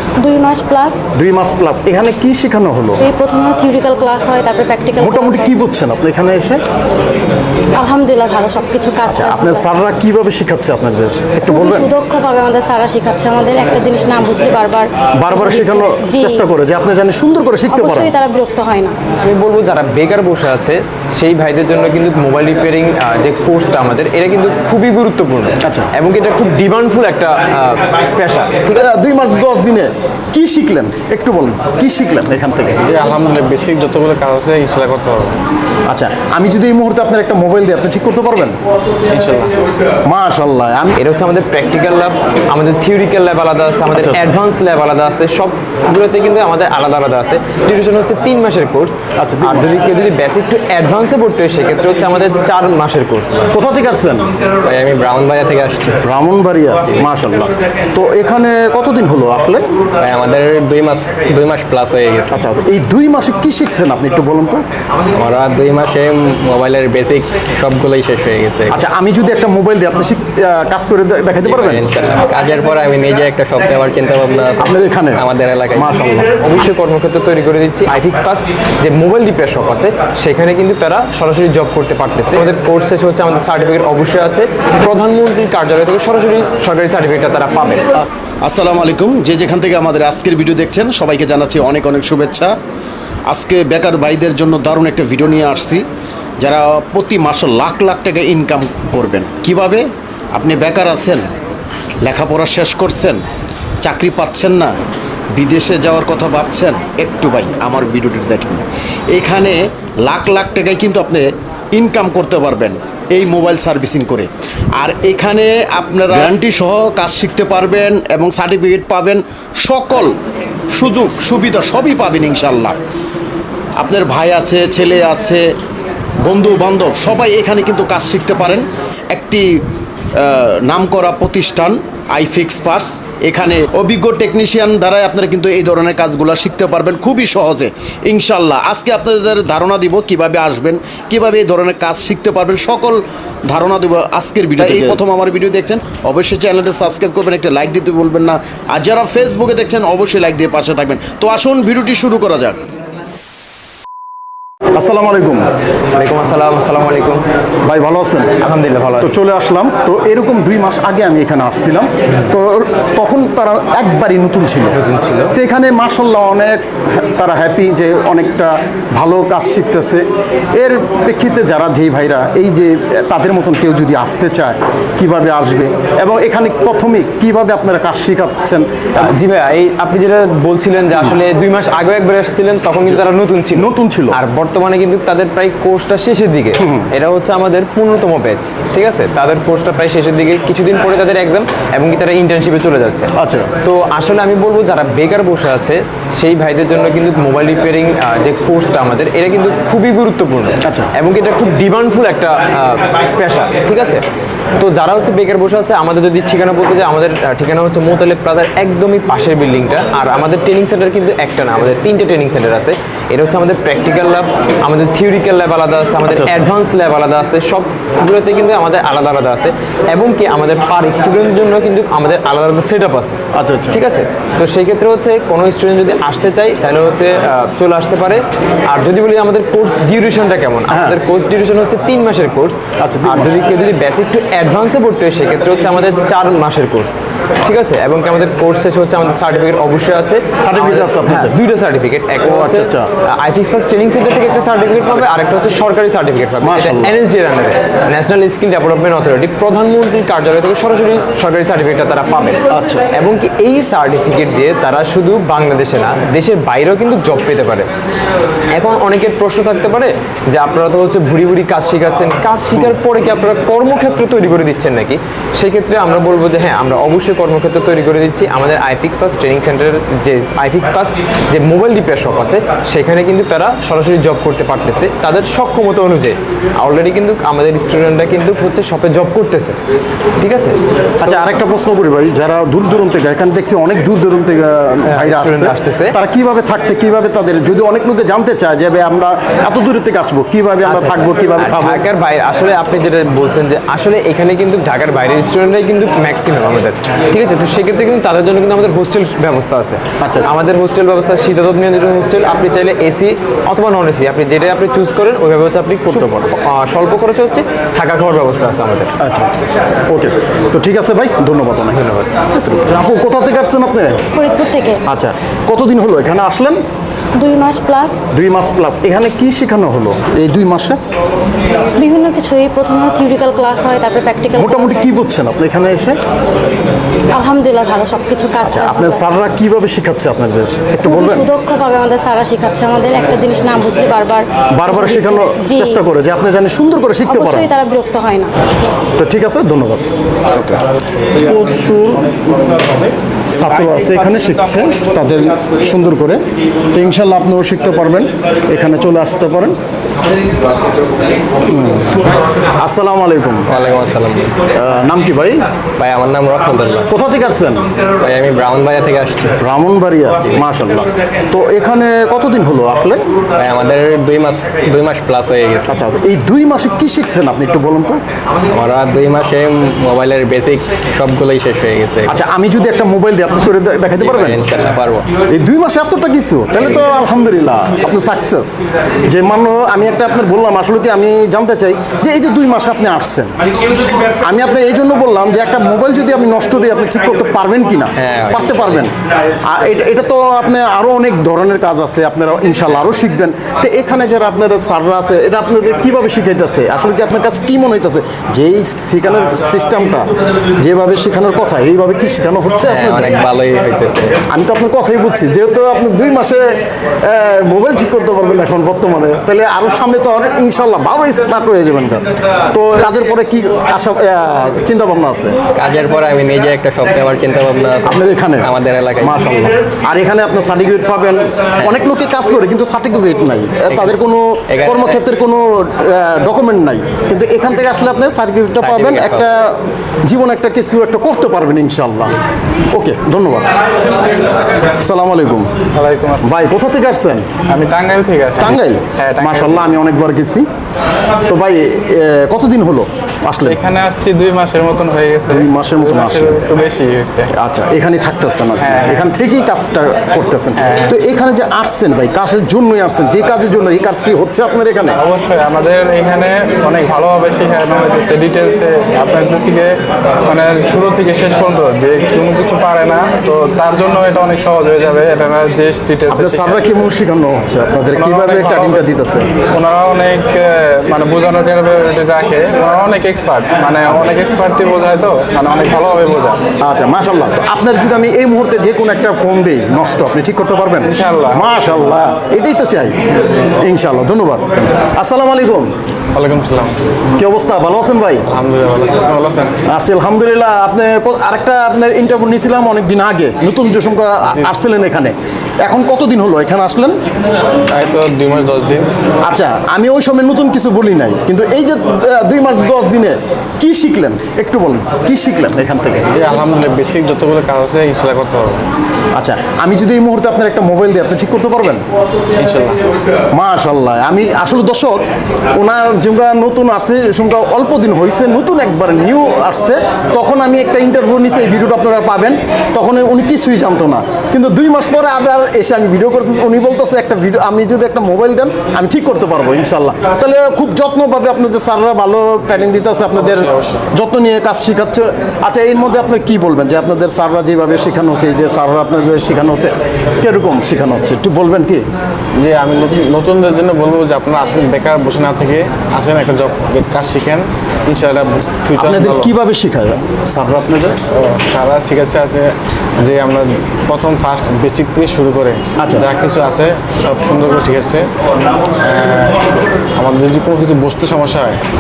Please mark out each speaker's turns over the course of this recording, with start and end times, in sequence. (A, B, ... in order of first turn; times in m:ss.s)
0:00.2-0:01.0 A
0:01.1-0:03.0 B
0:03.0-0:05.6 A
0:05.0-0:06.6 B
0:07.8-0:09.7 A
0:09.1-0:11.9 B
0:11.4-0:16.4 A
0:15.2-0:18.1 B
0:17.7-0:19.0 A
0:19.2-0:28.9 C
0:25.6-0:25.9 B
0:28.7-0:32.8 B
0:32.8-0:35.4 D
0:35.9-0:38.6 B
0:39.1-0:39.6 D
0:40.1-0:41.0 B
0:41.0-0:53.5 C
0:43.9-0:44.2 B
0:49.2-0:49.8 B
0:53.5-0:54.3 B
0:54.6-0:56.0 E
0:56.0-0:59.7 B
0:56.8-0:57.1 E
1:00.0-1:02.5 E
1:02.3-1:04.6 B
1:05.1-1:08.8 E
1:08.7-1:11.8 B
1:11.4-1:16.0 E
1:14.6-1:15.2 B
1:15.8-1:16.3 B
1:16.4-1:27.9 C
1:28.4-1:32.5 B
1:33.3-1:35.8 B
1:36.4-1:39.8 B
1:40.3-1:41.2 B
1:42.0-1:43.2 B
1:43.8-1:44.7 B
1:45.3-2:00.2 B
2:00.7-2:02.8 B
2:03.8-2:05.4 B
2:06.2-2:09.4 B
2:10.2-2:32.6 B
2:24.6-2:24.9 C
2:34.8-2:35.5 B
2:35.9-2:37.2 C
2:37.6-2:38.4 B
2:38.4-2:39.2 C
2:39.0-2:44.8 B
2:44.7-2:45.3 C
2:45.3-2:59.1 B
2:59.0-3:13.1 C
3:03.5-3:04.2 B
3:06.6-3:06.9 B
3:13.2-3:13.5 B
3:13.6-3:24.0 C
3:20.6-3:20.9 B
3:24.6-3:43.2 C
3:36.0-3:36.4 B
3:43.3-3:43.8 B
3:43.7-4:17.7 C
3:50.7-3:51.0 B
3:52.8-3:53.4 B
4:00.4-4:01.4 B
4:02.2-4:02.9 B
4:06.4-4:06.9 B
4:12.5-4:12.8 B
4:18.5-4:39.6 C
4:40.2-4:41.2 C
4:41.0-4:51.8 B
4:44.9-4:46.0 C
4:50.6-5:08.9 C
5:00.0-5:00.3 B
5:09.0-5:09.4 B
5:09.9-5:14.0 B
5:11.7-5:12.1 C
5:14.1-5:14.8 A
5:14.9-5:16.6 B
5:17.2-5:18.0 A
5:18.1-5:20.8 B
5:21.8-5:24.9 A
5:24.4-5:26.0 B
5:27.1-5:29.1 A
5:28.4-5:31.3 B
5:30.8-5:35.8 A
5:34.5-5:37.5 B
5:37.1-5:38.3 A
5:39.0-5:40.6 B
5:41.2-5:46.2 B
5:46.7-5:49.6 B
5:51.4-5:52.0 B
5:52.6-5:53.5 B
5:53.5-5:54.4 E
5:54.6-5:55.4 B
5:55.8-5:56.9 E
5:56.9-5:57.7 B
5:58.0-5:59.4 E
5:59.4-6:03.0 B
6:00.2-6:00.4 E
6:03.4-6:05.8 E
6:05.7-6:08.0 B
6:08.5-6:12.2 E
6:12.1-6:14.4 B
6:14.0-6:15.1 E
6:15.3-6:23.3 B
6:24.2-6:40.1 B
6:28.0-6:28.9 E
6:40.6-6:43.2 B
6:42.6-6:44.2 E
6:44.3-6:46.4 B
6:47.0-6:55.4 B
6:55.6-6:59.3 E
6:57.8-6:58.5 B
6:59.0-7:12.2 B
7:01.6-7:01.9 E
7:03.7-7:04.0 E
7:04.5-7:05.1 E
7:08.6-7:09.4 E
7:12.7-7:13.6 B
7:14.8-7:15.5 B
7:15.8-7:16.3 F
7:16.2-7:17.3 B
7:17.5-7:19.5 F
7:18.4-7:20.5 B
7:21.3-7:23.6 B
7:23.5-7:27.3 F
7:25.3-7:26.5 B
7:27.3-7:35.0 B
7:28.6-7:29.0 F
7:35.0-7:46.4 F
7:46.1-7:49.3 B
7:48.0-7:48.8 F
7:49.5-7:56.4 F
7:53.9-7:54.1 B
7:56.6-8:03.0 B
8:00.9-8:01.5 F
8:03.5-8:05.7 B
8:06.1-8:06.8 D
8:07.2-8:08.2 B
8:08.3-8:09.6 D
8:09.7-8:17.0 B
8:17.7-8:18.9 D
8:19.2-8:26.1 B
8:26.1-8:28.6 D
8:29.2-8:31.8 B
8:32.4-8:32.8 D
8:33.3-8:35.0 B
8:35.6-9:01.8 B
8:53.2-8:53.9 D
9:02.4-9:09.3 D
9:08.8-9:11.0 B
9:11.1-9:18.1 D
9:15.8-9:16.1 B
9:18.8-9:21.6 D